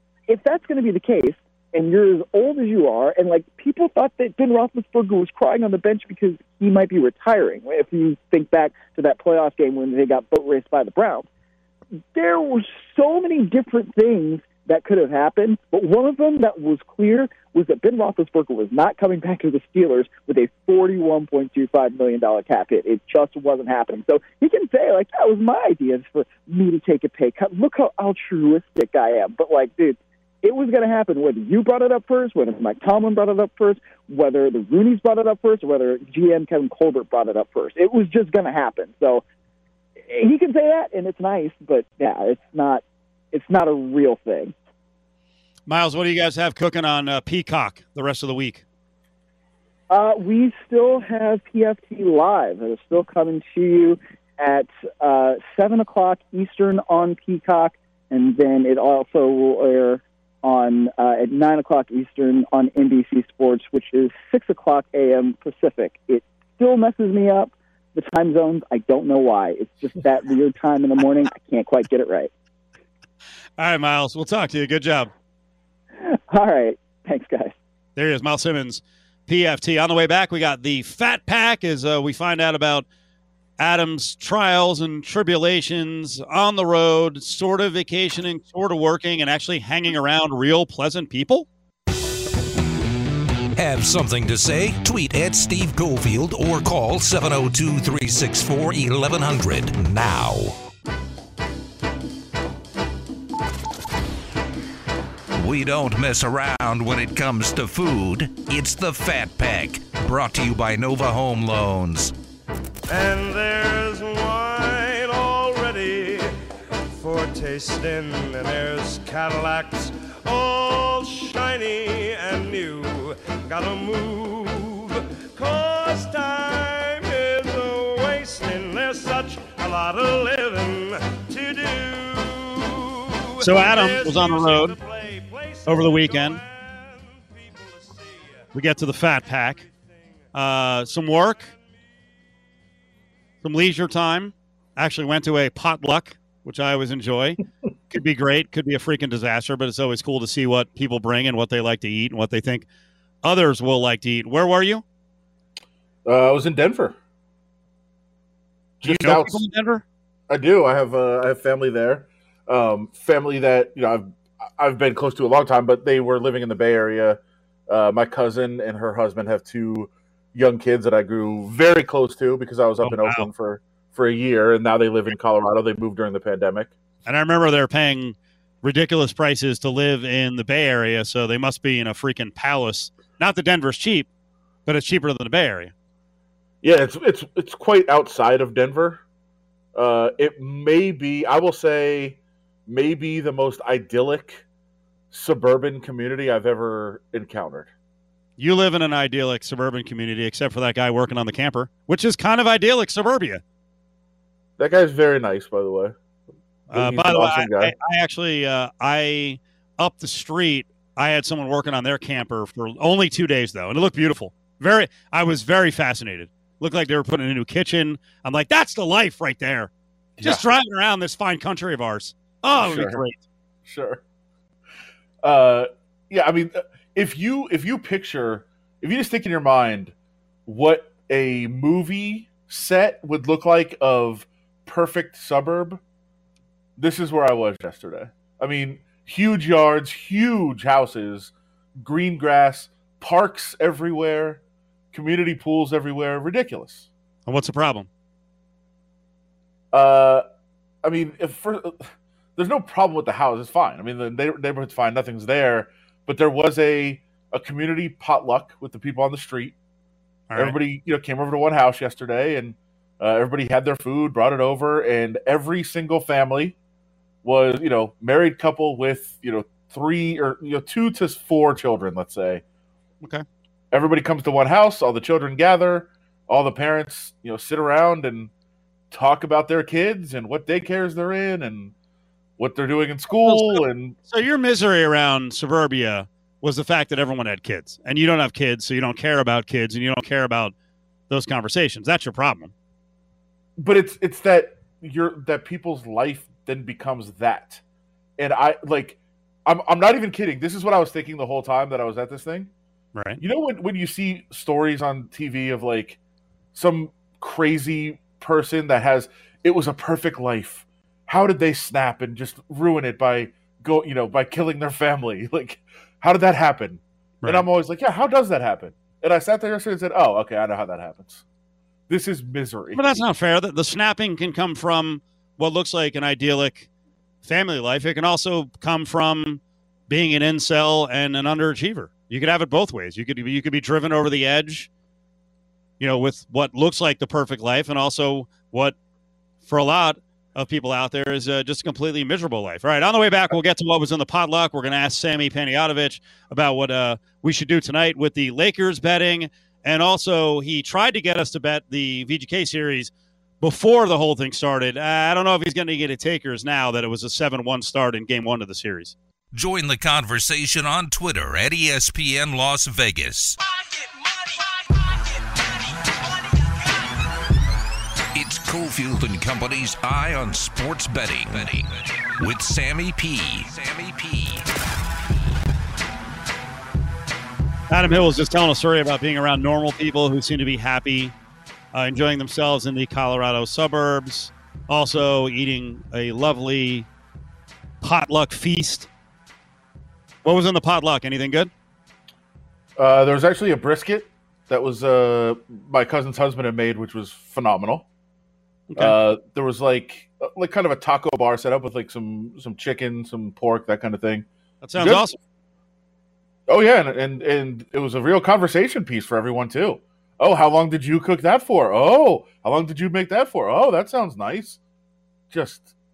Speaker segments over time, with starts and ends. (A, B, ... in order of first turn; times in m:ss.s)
0:00.3-0:11.3 A
0:12.1-0:39.2 A
0:40.1-0:44.5 A
0:45.7-0:48.6 B
0:49.9-1:12.3 A
1:13.6-1:15.1 B
1:16.0-1:17.5 A
1:18.0-1:22.9 B
1:23.6-1:31.5 B
1:33.6-1:40.6 C
1:45.4-1:52.1 C
1:52.9-1:56.3 D
1:56.9-2:21.6 D
2:13.4-2:14.8 B
2:15.7-2:16.4 B
2:18.5-2:19.6 B
2:20.3-2:21.5 B
2:23.4-2:27.4 B
2:27.9-2:32.7 B
2:33.2-2:34.8 B
2:36.0-2:37.0 E
2:38.8-2:39.4 E
2:38.8-2:39.8 B
2:40.3-2:56.7 E
2:52.8-2:53.3 B
2:57.1-3:04.1 B
3:04.7-3:05.7 B
3:06.6-3:09.0 E
3:09.7-3:14.4 E
3:15.1-3:17.7 E
3:18.4-3:23.4 B
3:24.6-3:26.0 E
3:26.7-3:27.7 E
3:26.7-3:39.7 B
3:40.2-3:40.4 E
3:40.2-3:43.2 B
3:42.5-3:43.0 E
3:43.7-3:44.0 E
3:45.2-3:49.9 E
3:50.5-3:55.8 E
3:56.8-4:04.4 E
4:04.9-4:06.9 E
4:07.3-4:07.9 B
4:09.7-4:10.2 E
4:10.8-4:19.6 E
4:20.3-4:20.6 B
4:20.4-4:26.6 E
4:27.2-4:32.4 E
4:33.7-4:38.3 E
4:38.9-4:41.7 E
4:42.4-4:44.0 E
4:43.3-4:50.5 B
4:51.1-4:52.5 B
4:53.6-4:57.6 E
4:58.2-5:02.5 E
5:03.0-5:03.2 B
5:03.2-5:06.0 E
5:06.5-5:21.2 E
5:21.9-5:22.9 E
5:22.7-5:26.7 B
5:27.2-5:34.7 B
5:35.8-5:38.8 B
5:39.4-5:59.0 B
5:59.3-6:03.4 C
6:08.2-6:14.4 C
6:17.7-6:21.1 B
6:21.7-6:26.9 B
6:27.8-6:28.9 B
6:30.2-6:31.5 B
6:32.8-6:37.9 E
6:38.7-6:39.0 B
6:38.8-6:44.3 E
6:44.6-6:45.2 B
6:44.8-6:45.1 E
6:46.5-6:54.6 E
6:55.3-6:55.7 E